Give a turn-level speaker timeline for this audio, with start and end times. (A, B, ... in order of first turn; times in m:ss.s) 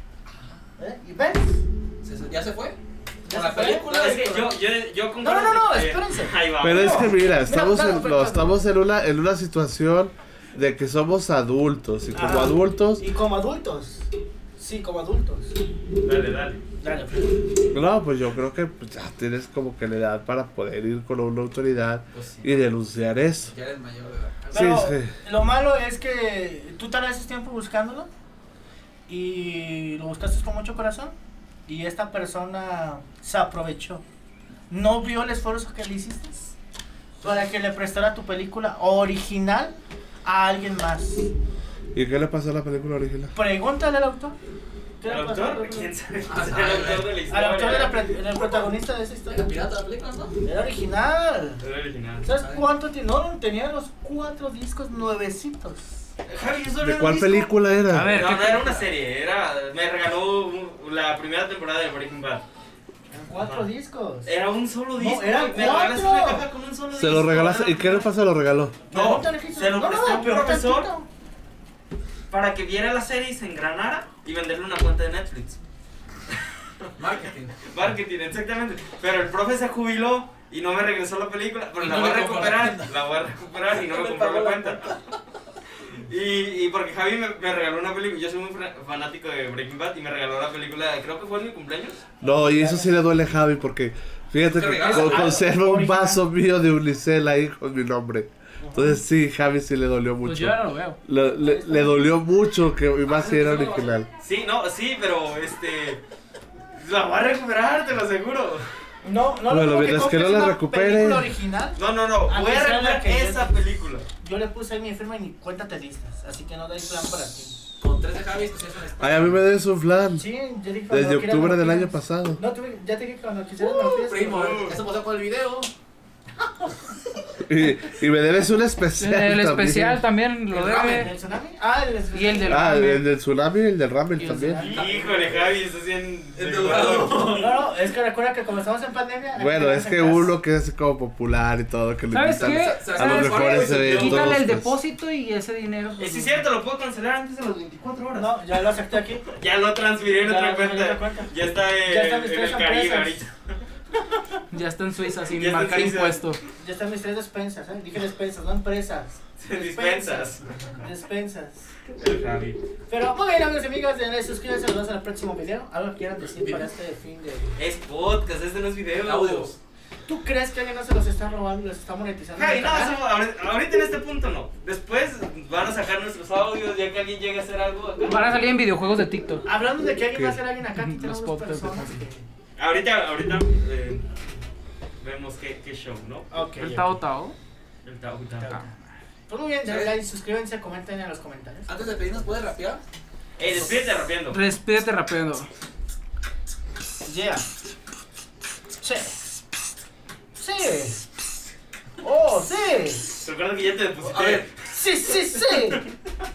0:00.3-0:00.7 A
0:00.8-0:01.6 B
0:02.0-0:02.8 A
0:03.2-0:03.9 B
0:03.3-0:04.6 A
0:03.7-0:07.1 C
0:05.2-0:08.5 B
0:06.6-0:13.0 D
0:12.1-0:15.6 B
0:16.0-0:16.6 C
0:16.8-0:17.5 B
0:17.7-0:23.5 D
0:22.1-0:22.7 A
0:23.4-0:24.8 A
0:24.5-0:25.1 D
0:24.5-0:28.1 B
0:29.1-0:31.2 B
0:31.7-0:34.0 B
0:34.7-0:36.5 B
0:37.2-0:41.3 B
0:41.9-0:43.3 D
0:43.3-0:44.4 B
0:45.0-0:45.9 B
0:45.0-0:47.9 C
0:46.2-0:47.1 A
0:47.3-0:49.7 B
0:48.4-0:48.6 A
0:49.3-0:50.4 A
0:50.4-0:51.6 B
0:51.6-0:52.2 C
0:52.2-0:56.1 B
0:52.3-0:52.7 A
0:56.2-0:57.5 C
0:56.8-0:58.2 D
0:57.9-0:58.9 E
0:58.0-1:02.4 C
1:03.1-1:04.3 B
1:03.4-1:03.7 C
1:04.2-1:08.1 C
1:05.0-1:06.5 B
1:06.9-1:08.8 D
1:08.9-1:10.9 C
1:08.9-1:11.1 B
1:12.3-1:15.6 C
1:17.0-1:17.7 A
1:17.6-1:25.0 C
1:21.8-1:23.0 A
1:23.7-1:25.0 A
1:26.0-1:32.0 C
1:32.2-1:44.1 D
1:32.2-1:33.0 B
1:34.5-1:35.4 A
1:34.8-1:36.2 B
1:38.6-1:39.0 B
1:40.2-1:41.0 E
1:41.4-1:42.1 B
1:43.0-1:44.0 A
1:44.2-1:46.0 C
1:46.8-1:48.6 C
1:49.0-1:53.6 B
1:49.5-1:51.3 D
1:51.8-1:54.0 C
1:54.2-1:57.6 B
1:57.8-1:59.4 A
1:59.0-2:00.3 D
2:00.2-2:04.8 B
2:00.9-2:02.4 D
2:03.6-2:05.7 A
2:04.5-2:04.8 C
2:07.5-2:10.0 D
2:09.0-2:11.1 E
2:10.5-2:11.1 A
2:10.7-2:12.6 B
2:12.1-2:13.0 E
2:12.5-2:14.6 D
2:14.2-2:14.6 E
2:14.3-2:15.3 B
2:14.6-2:17.5 C
2:14.6-2:15.5 A
2:16.4-2:17.5 A
2:17.2-2:20.3 B
2:19.4-2:24.7 D
2:22.1-2:26.4 E
2:22.2-2:24.2 A
2:23.6-2:24.3 C
2:26.0-2:28.4 C
2:28.2-2:29.3 B
2:29.3-2:33.3 C
2:30.1-2:33.2 B
2:34.5-2:36.4 E
2:35.3-2:36.3 C
2:36.6-2:41.7 B
2:39.4-2:40.8 C
2:42.0-2:42.6 C
2:42.9-2:47.6 B
2:46.3-2:46.6 A
2:47.6-2:49.6 C
2:49.0-2:49.6 A
2:50.1-2:53.0 B
2:52.4-2:58.4 C
2:58.0-2:59.4 E
2:59.4-3:02.2 B
3:00.7-3:02.0 E
3:02.6-3:04.1 C
3:05.0-3:06.3 C
3:06.3-3:07.0 B
3:06.6-3:07.4 E
3:07.8-3:08.6 C
3:09.3-3:12.3 B
3:09.6-3:09.9 A
3:11.7-3:12.8 A
3:13.4-3:14.4 C
3:14.3-3:15.5 E
3:17.0-3:17.4 B
3:18.8-3:19.4 B
3:20.3-3:21.1 B
3:22.0-3:23.2 B
3:23.2-3:24.5 C
3:24.0-3:24.5 A
3:24.6-3:25.8 B
3:25.4-3:25.8 C